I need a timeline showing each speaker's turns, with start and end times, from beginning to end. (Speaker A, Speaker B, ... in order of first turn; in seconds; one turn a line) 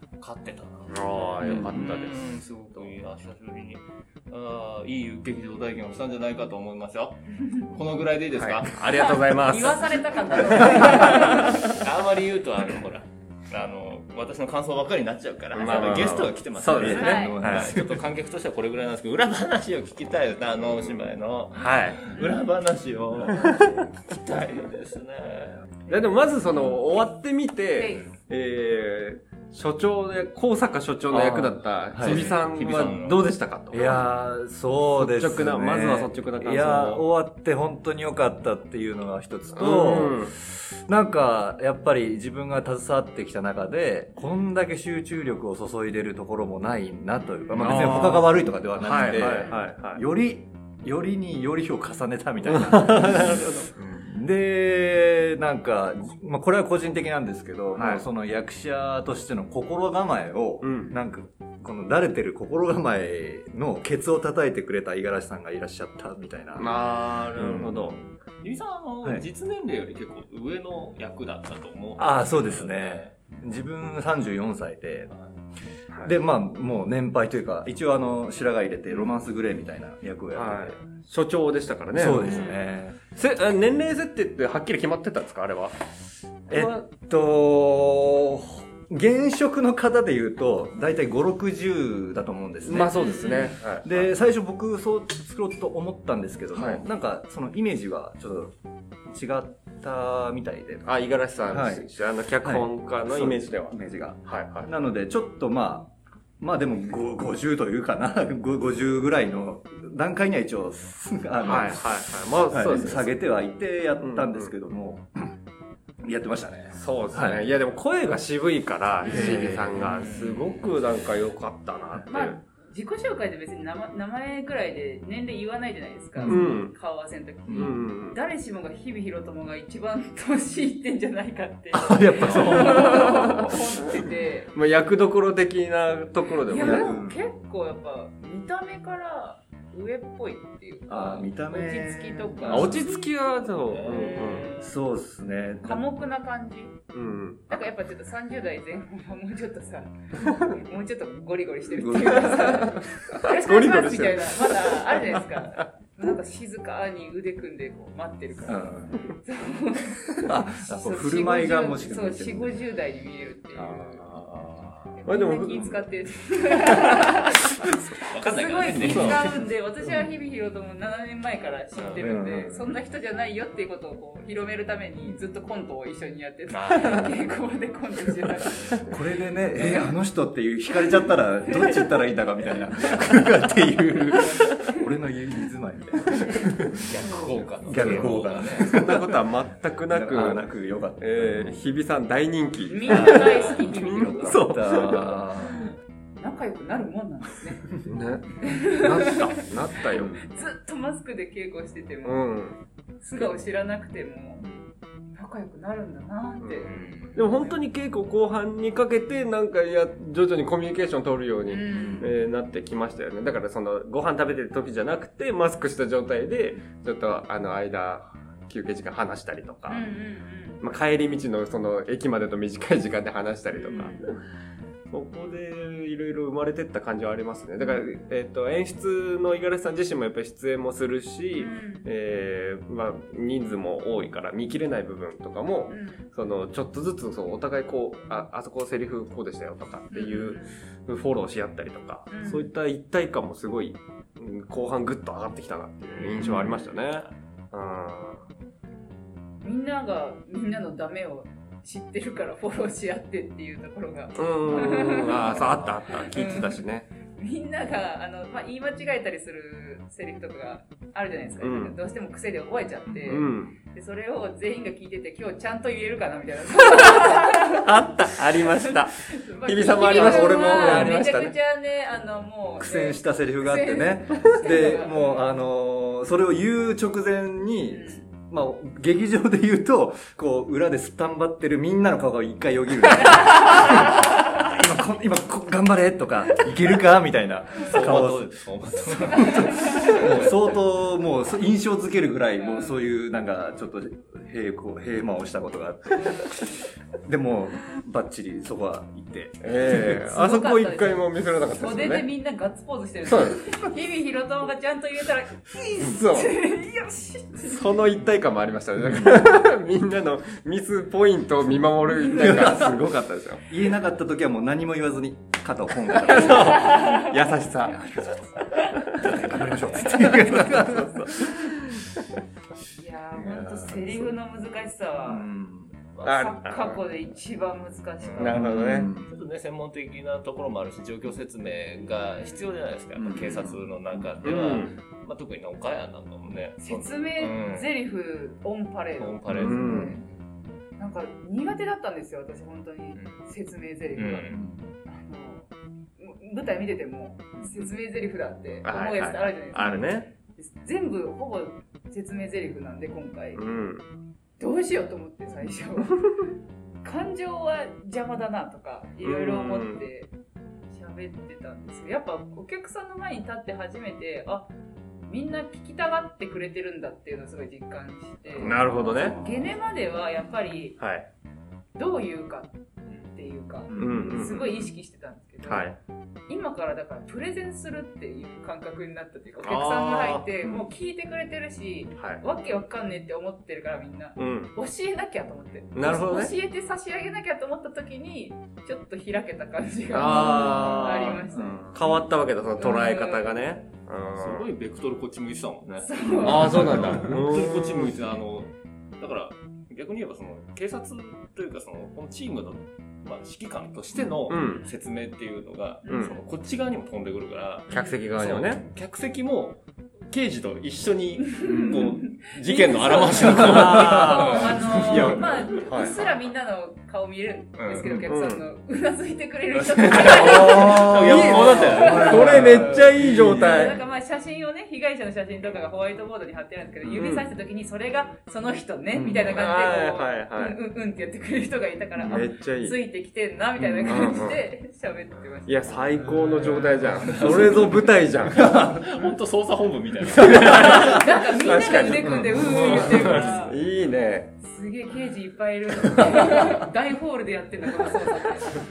Speaker A: 0.2-9.2
Speaker B: 0.9-2.9
Speaker B: 8.4-11.8
Speaker C: 8.9-11.6
Speaker A: 10.6-25.6
Speaker B: 15.5-17.8
Speaker D: 16.7-18.0
Speaker C: 17.0-17.4
Speaker B: 21.6-22.0
Speaker C: 22.1-22.4
Speaker B: 23.4-23.7
Speaker B: 25.9-34.0
Speaker C: 27.8-28.1
Speaker D: 31.1-32.3
Speaker A: 32.0-33.3
Speaker D: 33.7-66.7
Speaker B: 34.9-37.0
Speaker B: 39.6-40.3
Speaker C: 47.3-47.8
Speaker B: 47.5-50.0
Speaker B: 52.5-53.7
Speaker B: 57.8-58.0
Speaker B: 60.6-60.9
Speaker B: 66.5-68.0
Speaker C: 66.7-67.3
Speaker A: 66.9-73.2
Speaker D: 67.4-67.9
Speaker D: 72.0-75.1
Speaker D: 76.0-80.8
Speaker B: 80.3-82.5
Speaker D: 82.0-83.0
Speaker C: 82.3-82.7
Speaker B: 83.1-85.8
Speaker B: 86.5-86.8
Speaker D: 86.5-98.5
Speaker B: 92.7-94.1
Speaker C: 93.0-93.6
Speaker B: 96.5-96.8
Speaker D: 99.1-100.9
Speaker B: 100.8-104.7
Speaker D: 101.5-115.3
Speaker B: 111.4-113.1
Speaker B: 114.0-114.5
Speaker D: 116.0-117.4
Speaker B: 116.8-122.4
Speaker C: 119.0-119.5
Speaker D: 119.1-119.9
Speaker A: 119.5-120.7
Speaker C: 122.1-134.5
Speaker D: 126.2-126.5
Speaker B: 126.2-126.7
Speaker D: 127.5-127.8
Speaker B: 127.5-128.2
Speaker D: 131.7-133.6
Speaker B: 132.3-133.6
Speaker B: 134.5-136.9
Speaker C: 136.5-143.1
Speaker D: 136.6-137.2
Speaker D: 140.9-142.8
Speaker B: 142.5-144.5
Speaker A: 143.7-144.4
Speaker C: 143.8-144.7
Speaker D: 144.5-145.8
Speaker C: 145.6-146.8
Speaker B: 146.9-147.6
Speaker C: 147.5-164.0
Speaker D: 151.8-153.2
Speaker B: 152.3-155.7
Speaker D: 158.5-159.1
Speaker D: 160.1-162.6
Speaker D: 163.6-164.7
Speaker B: 163.7-164.3
Speaker C: 164.9-178.9
Speaker B: 165.1-165.9
Speaker B: 166.5-167.2
Speaker A: 168.0-169.3
Speaker D: 168.8-169.3
Speaker A: 171.8-172.2
Speaker D: 172.0-172.6
Speaker A: 176.5-177.1
Speaker D: 178.8-186.8
Speaker C: 179.5-179.9
Speaker C: 181.4-182.0
Speaker C: 184.1-184.8
Speaker A: 186.8-188.8
Speaker C: 187.0-187.4
Speaker D: 187.7-189.2
Speaker B: 187.7-190.4
Speaker D: 189.9-191.6
Speaker B: 191.0-195.2
Speaker C: 192.7-194.5
Speaker D: 192.9-195.7
Speaker C: 195.4-197.7
Speaker B: 197.8-200.3
Speaker C: 198.4-202.3
Speaker D: 199.9-200.2
Speaker B: 202.0-202.6
Speaker C: 203.0-204.5
Speaker C: 205.1-207.6
Speaker B: 206.4-219.9
Speaker A: 206.7-207.2
Speaker C: 211.5-212.1
Speaker D: 211.7-212.0
Speaker C: 219.7-220.6
Speaker B: 220.6-224.1
Speaker C: 223.5-224.2
Speaker B: 224.9-248.3
Speaker C: 231.3-231.9
Speaker C: 235.7-236.1
Speaker C: 239.9-240.6
Speaker C: 242.1-242.5
Speaker A: 245.9-247.1
Speaker D: 246.2-246.5
Speaker C: 249.4-267.7
Speaker B: 254.2-256.9
Speaker B: 261.4-261.8
Speaker B: 263.0-263.6
Speaker B: 266.8-271.3
Speaker C: 268.4-275.3
Speaker D: 269.8-271.3
Speaker D: 272.6-296.5
Speaker C: 277.7-278.1
Speaker A: 287.6-290.6
Speaker C: 289.3-289.9
Speaker C: 292.4-292.8
Speaker C: 296.0-296.5
Speaker D: 297.0-300.1
Speaker B: 299.4-302.1
Speaker C: 299.8-307.6
Speaker B: 303.0-303.5
Speaker B: 305.8-306.4
Speaker B: 307.4-313.4
Speaker D: 308.8-309.2
Speaker D: 312.1-312.9
Speaker D: 313.5-316.8
Speaker B: 315.9-318.0
Speaker C: 316.2-317.1
Speaker B: 318.6-321.9
Speaker D: 319.0-321.6
Speaker C: 322.7-325.3
Speaker D: 323.2-324.1
Speaker D: 325.1-325.7
Speaker A: 325.9-326.3
Speaker C: 326.0-328.4
Speaker B: 326.0-326.8
Speaker A: 328.0-337.8
Speaker B: 328.2-328.9
Speaker D: 328.3-329.1
Speaker C: 332.0-332.5
Speaker D: 333.0-334.1
Speaker B: 334.2-334.8
Speaker C: 336.6-340.0
Speaker A: 339.0-340.1
Speaker D: 339.3-339.9
Speaker B: 339.3-339.9
Speaker C: 340.8-353.4
Speaker A: 343.0-343.2
Speaker A: 343.9-344.4
Speaker D: 344.3-344.7
Speaker B: 348.6-350.1
Speaker B: 353.4-353.9
Speaker C: 354.4-356.3
Speaker C: 356.8-360.1
Speaker B: 359.0-359.8
Speaker C: 360.7-364.5
Speaker C: 365.1-370.8
Speaker B: 368.4-369.2
Speaker D: 368.4-369.4
Speaker B: 370.8-371.1
Speaker C: 371.8-375.7
Speaker D: 373.7-374.3
Speaker B: 373.8-374.7
Speaker B: 375.5-375.8
Speaker C: 376.3-391.9
Speaker B: 379.4-380.3
Speaker B: 384.2-384.5
Speaker B: 385.7-386.3
Speaker B: 389.9-394.5
Speaker D: 390.1-391.7
Speaker C: 392.6-393.6
Speaker A: 394.2-416.0
Speaker C: 395.9-396.8
Speaker B: 396.2-397.9
Speaker B: 404.3-404.6
Speaker C: 404.4-404.7
Speaker C: 405.8-406.2
Speaker B: 405.9-406.1
Speaker B: 407.7-408.6
Speaker C: 407.7-408.0
Speaker C: 411.4-422.3
Speaker B: 411.4-415.9
Speaker D: 413.3-414.4
Speaker A: 417.6-418.0
Speaker B: 417.9-418.4
Speaker A: 419.5-422.9
Speaker D: 420.1-423.7
Speaker B: 421.0-423.8
Speaker C: 423.2-435.8
Speaker B: 426.9-427.2
Speaker D: 428.9-429.4
Speaker B: 429.3-430.6
Speaker B: 432.1-432.8
Speaker D: 433.6-434.1
Speaker B: 433.8-434.4
Speaker B: 435.5-438.8
Speaker D: 436.1-437.9
Speaker A: 436.5-437.8
Speaker A: 438.4-441.9
Speaker D: 438.4-438.8
Speaker B: 440.0-444.3
Speaker C: 440.4-443.6
Speaker A: 442.5-443.3
Speaker C: 444.4-448.6
Speaker B: 445.8-446.6